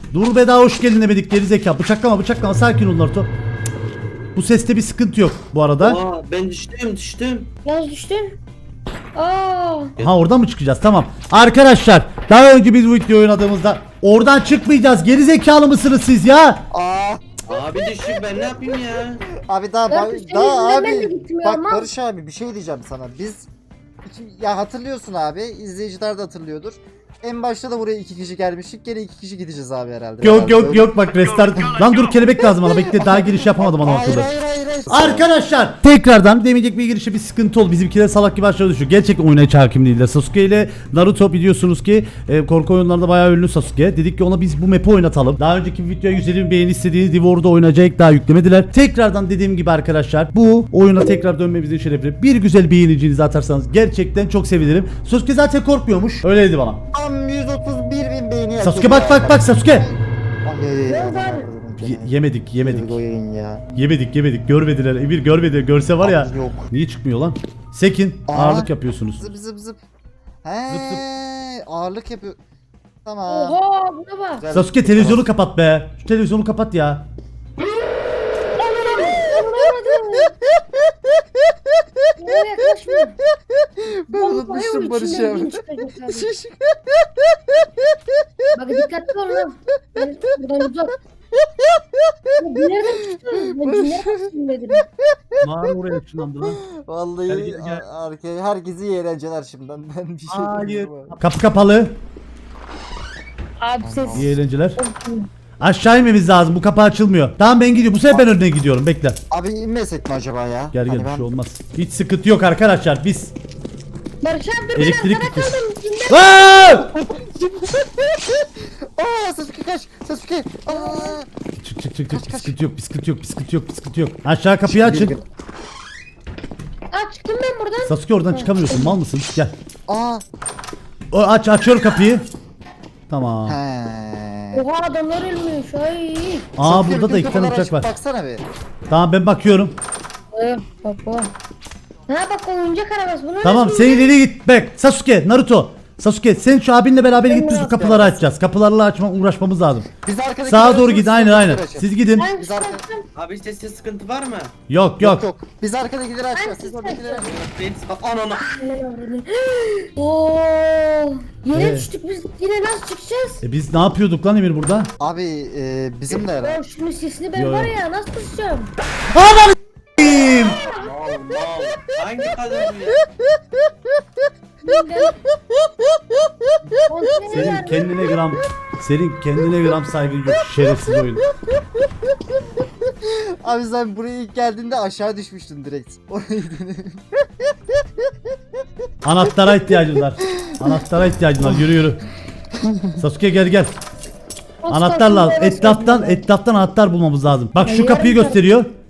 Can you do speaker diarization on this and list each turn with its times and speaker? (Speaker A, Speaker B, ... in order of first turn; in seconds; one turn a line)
Speaker A: 0.1-3.3
Speaker A: 4.3-6.0
Speaker B: 5.8-7.5
Speaker C: 7.7-8.4
Speaker C: 9.2-9.9
Speaker A: 10.0-16.6
Speaker D: 16.7-17.6
Speaker B: 17.5-19.3
Speaker D: 19.3-23.5
Speaker C: 19.9-21.9
Speaker D: 24.0-35.3
Speaker A: 30.2-34.3
Speaker A: 34.9-56.8
Speaker D: 56.9-63.6
Speaker A: 58.6-59.9
Speaker C: 60.9-61.5
Speaker A: 61.8-63.0
Speaker A: 63.8-69.3
Speaker D: 66.0-66.7
Speaker D: 68.3-69.8
Speaker D: 70.4-72.4
Speaker A: 70.7-71.0
Speaker D: 73.0-73.6
Speaker C: 73.3-74.5
Speaker D: 74.4-75.3
Speaker A: 74.5-77.1
Speaker C: 78.6-80.3
Speaker D: 78.9-79.7
Speaker D: 82.0-82.4
Speaker C: 82.2-83.2
Speaker D: 83.6-88.0
Speaker C: 84.1-86.3
Speaker C: 88.5-91.0
Speaker D: 91.4-95.5
Speaker C: 92.4-94.8
Speaker A: 95.4-96.6
Speaker D: 96.4-101.2
Speaker A: 97.3-97.8
Speaker A: 100.3-102.0
Speaker C: 103.6-105.3
Speaker D: 103.8-104.4
Speaker A: 104.1-104.8
Speaker A: 105.6-109.2
Speaker D: 109.3-111.3
Speaker A: 110.7-113.3
Speaker C: 114.2-116.3
Speaker A: 114.8-115.6
Speaker A: 116.1-116.9
Speaker D: 116.9-121.3
Speaker C: 120.7-121.2
Speaker A: 121.6-125.1
Speaker D: 122.1-122.6
Speaker D: 124.7-125.2
Speaker C: 126.9-129.0
Speaker A: 127.8-129.5
Speaker D: 129.9-130.2
Speaker A: 131.1-132.3
Speaker A: 133.1-133.6
Speaker D: 133.5-134.7
Speaker C: 134.5-136.5
Speaker A: 136.6-137.9
Speaker D: 136.6-138.5
Speaker A: 138.9-139.8
Speaker C: 140.3-141.3
Speaker C: 142.1-144.1
Speaker A: 143.4-149.9
Speaker C: 147.3-147.8
Speaker D: 147.5-148.3
Speaker D: 150.0-152.8
Speaker A: 150.5-152.3
Speaker C: 152.2-153.1
Speaker B: 153.2-154.5
Speaker A: 154.7-155.2
Speaker D: 155.0-157.3
Speaker C: 156.4-157.3
Speaker B: 157.2-158.5
Speaker C: 158.6-163.4
Speaker A: 161.5-161.9
Speaker A: 163.4-164.9
Speaker D: 165.0-166.6
Speaker C: 166.2-168.7
Speaker A: 167.3-167.7
Speaker A: 169.1-170.6
Speaker C: 170.0-170.9
Speaker D: 170.8-171.8
Speaker B: 171.4-173.0
Speaker C: 174.6-175.2
Speaker C: 176.9-178.2
Speaker A: 177.3-181.3
Speaker D: 183.0-188.1
Speaker A: 189.0-192.0
Speaker D: 189.4-189.8
Speaker D: 190.4-190.8
Speaker D: 192.6-193.0
Speaker A: 193.0-193.8
Speaker C: 194.6-196.2
Speaker A: 194.7-198.7
Speaker C: 197.7-198.4